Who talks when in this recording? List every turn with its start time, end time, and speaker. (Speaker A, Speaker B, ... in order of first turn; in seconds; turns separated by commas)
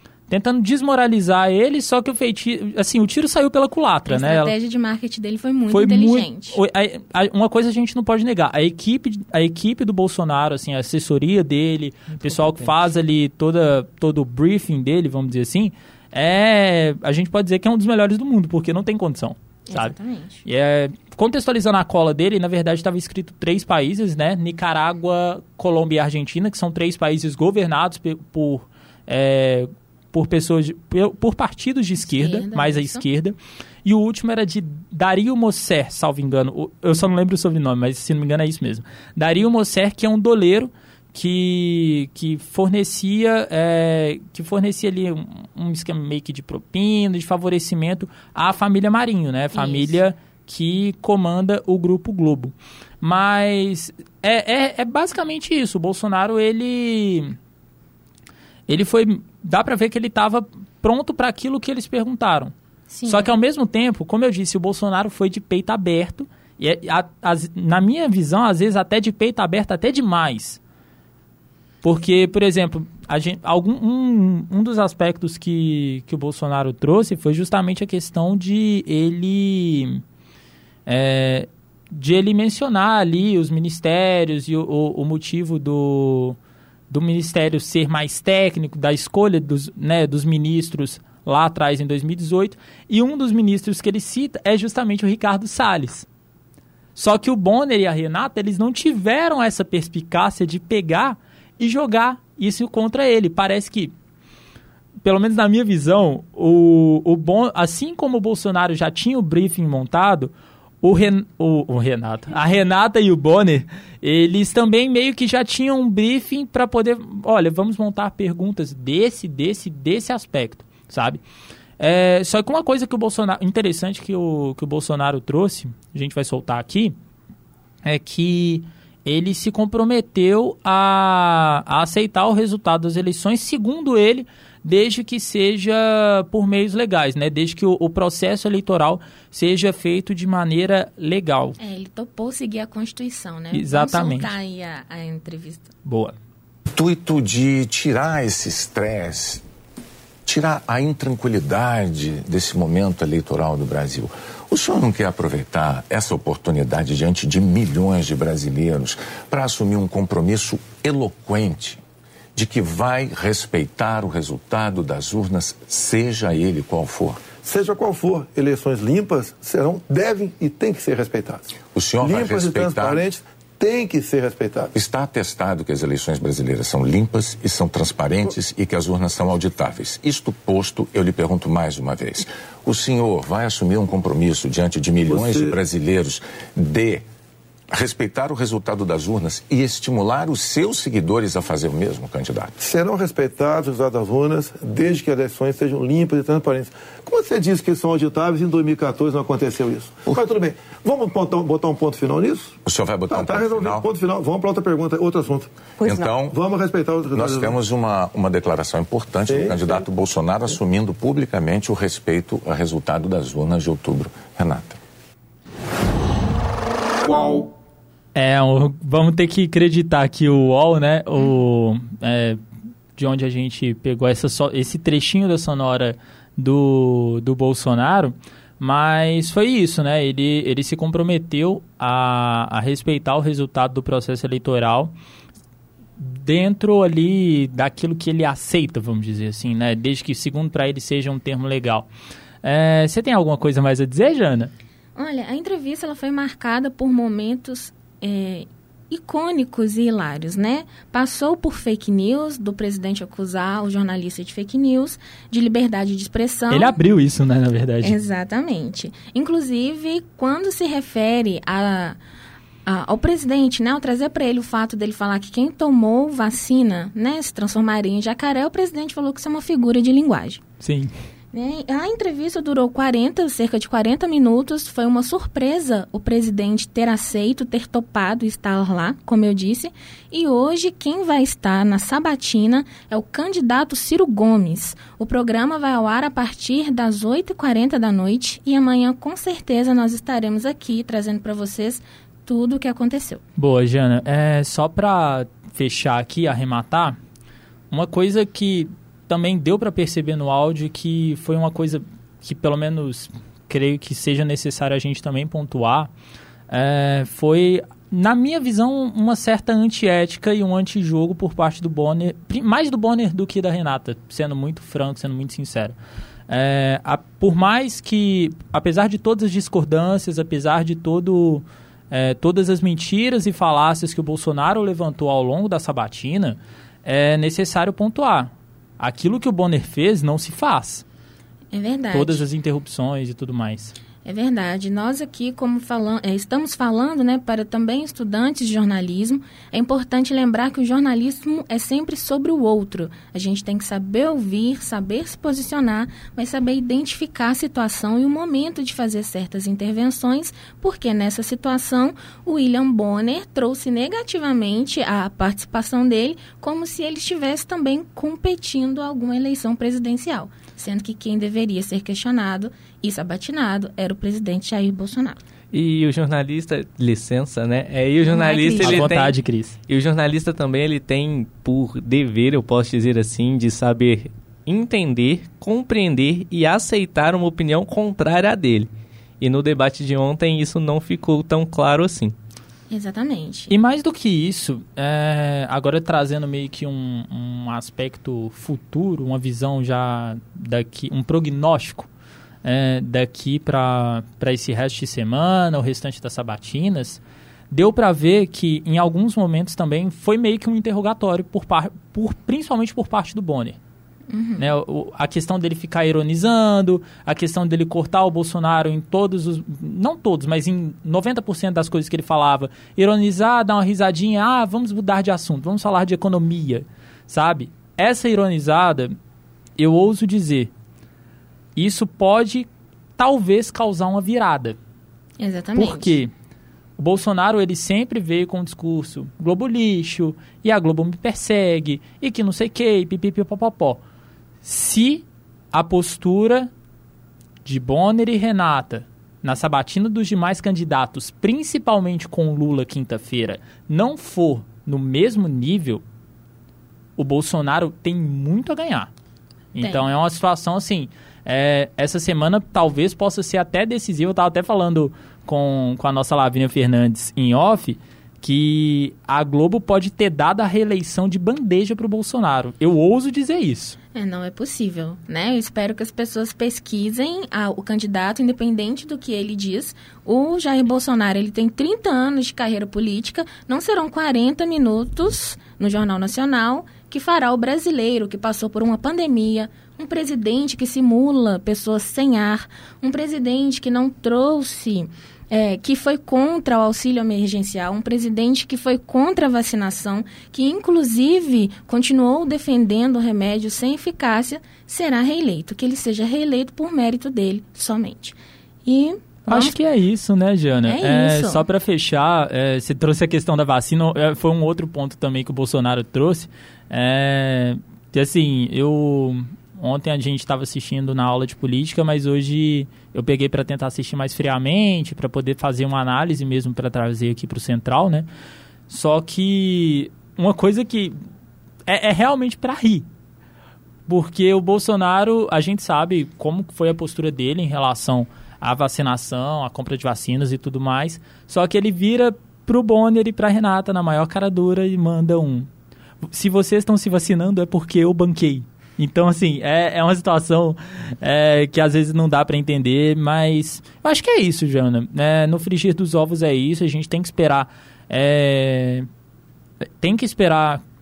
Speaker A: 0.3-4.5, Speaker B: 4.1-6.6, Speaker A: 5.7-57.4, Speaker B: 19.7-20.4, Speaker B: 32.0-33.1, Speaker B: 49.5-50.0, Speaker A: 58.7-62.5, Speaker B: 62.9-63.3, Speaker A: 63.1-70.6, Speaker A: 71.8-80.0, Speaker A: 80.9-86.4, Speaker A: 86.9-96.1, Speaker A: 97.0-103.9, Speaker A: 105.0-121.2, Speaker A: 121.8-127.0, Speaker A: 127.8-141.6, Speaker B: 141.6-145.7, Speaker A: 143.5-144.3, Speaker A: 145.8-146.2, Speaker C: 146.7-149.4, Speaker C: 150.3-161.8, Speaker C: 162.4-167.3, Speaker D: 167.3-174.7, Speaker C: 171.6-173.0, Speaker C: 174.7-187.1, Speaker D: 185.1-185.6, Speaker C: 187.7-192.6, Speaker D: 192.6-207.6, Speaker C: 202.6-203.8, Speaker C: 205.8-206.3, Speaker C: 207.1-214.8, Speaker D: 209.3-209.8, Speaker D: 217.0-217.5, Speaker A: 218.2-222.4, Speaker A: 223.0-234.9, Speaker A: 236.0-241.9, Speaker A: 242.4-244.5, Speaker B: 245.0-256.8, Speaker A: 256.5-257.9, Speaker B: 257.8-262.0, Speaker B: 262.7-270.4, Speaker A: 270.6-270.9, Speaker B: 271.3-293.2, Speaker A: 293.4-297.0, Speaker A: 297.7-305.9, Speaker A: 306.5-315.8, Speaker A: 316.3-330.8, Speaker B: 331.5-332.2, Speaker A: 331.9-333.8, Speaker B: 334.1-365.2, Speaker E: 365.5-369.2, Speaker B: 368.1-368.9, Speaker A: 368.6-369.6, Speaker E: 369.7-378.7, Speaker E: 379.2-382.1, Speaker B: 382.7-383.5, Speaker A: 383.5-391.9, Speaker A: 392.4-403.6, Speaker B: 404.1-404.5, Speaker A: 404.4-418.9, Speaker A: 419.6-420.5, Speaker A: 421.6-422.5, Speaker A: 423.0-424.6, Speaker B: 425.2-425.9, Speaker A: 425.6-426.1, Speaker A: 426.8-433.8, Speaker A: 434.4-436.5, Speaker A: 437.4-445.8, Speaker A: 447.0-448.9, Speaker A: 449.5-463.8, Speaker B: 449.6-449.9, Speaker B: 463.9-499.6, Speaker A: 499.3-518.1, Speaker B: 500.7-501.4, Speaker A: 518.7-521.0, Speaker A: 521.7-522.9, Speaker A: 523.9-535.5, Speaker A: 536.0-548.9, Speaker A: 549.8-550.6